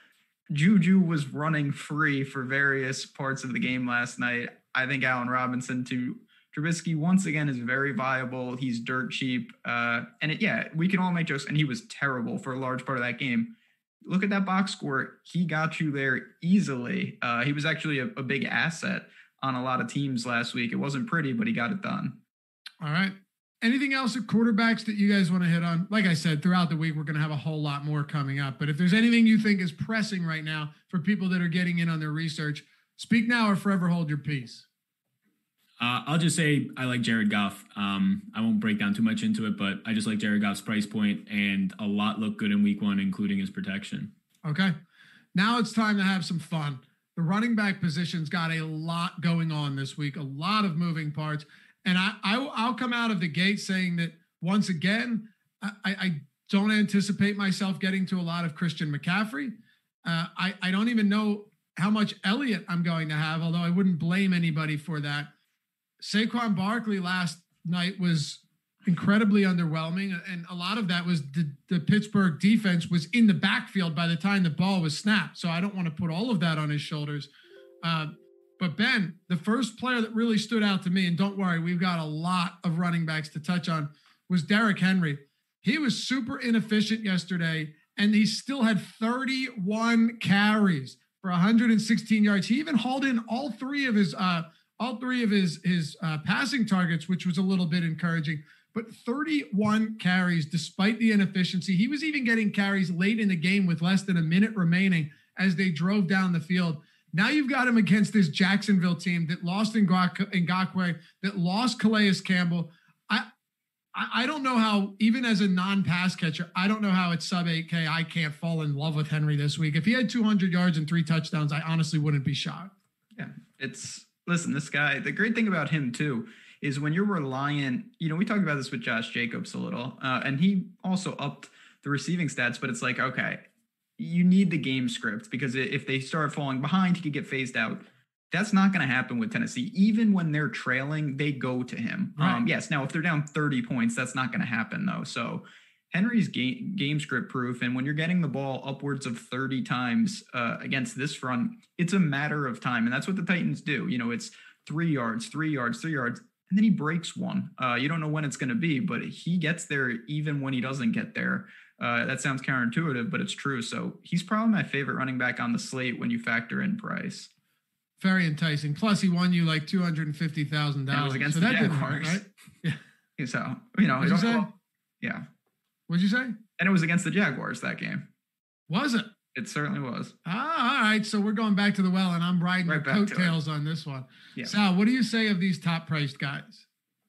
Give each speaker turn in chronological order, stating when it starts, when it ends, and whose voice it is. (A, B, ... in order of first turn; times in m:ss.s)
0:00.5-0:13.5 A
0:14.0-0:22.2 A
0:22.8-0:34.6 B
0:35.8-0:44.1 C
0:44.4-0:44.8 B
0:45.4-0:59.5 B
1:00.0-1:05.3 B
1:06.0-1:17.3 B
1:17.8-1:53.3 B
1:53.9-2:02.7 B
2:03.2-2:13.4 A
2:14.0-2:47.3 A
2:22.2-2:22.4 B
2:48.0-2:52.8 B
2:50.9-2:52.2 A
2:53.2-2:54.5 A
2:54.0-2:54.5 B
2:55.9-2:56.4 B
2:56.6-2:58.0 A
2:58.7-2:59.1 B
2:59.3-3:00.1 A
3:00.2-3:06.6 B
3:02.7-3:03.4 A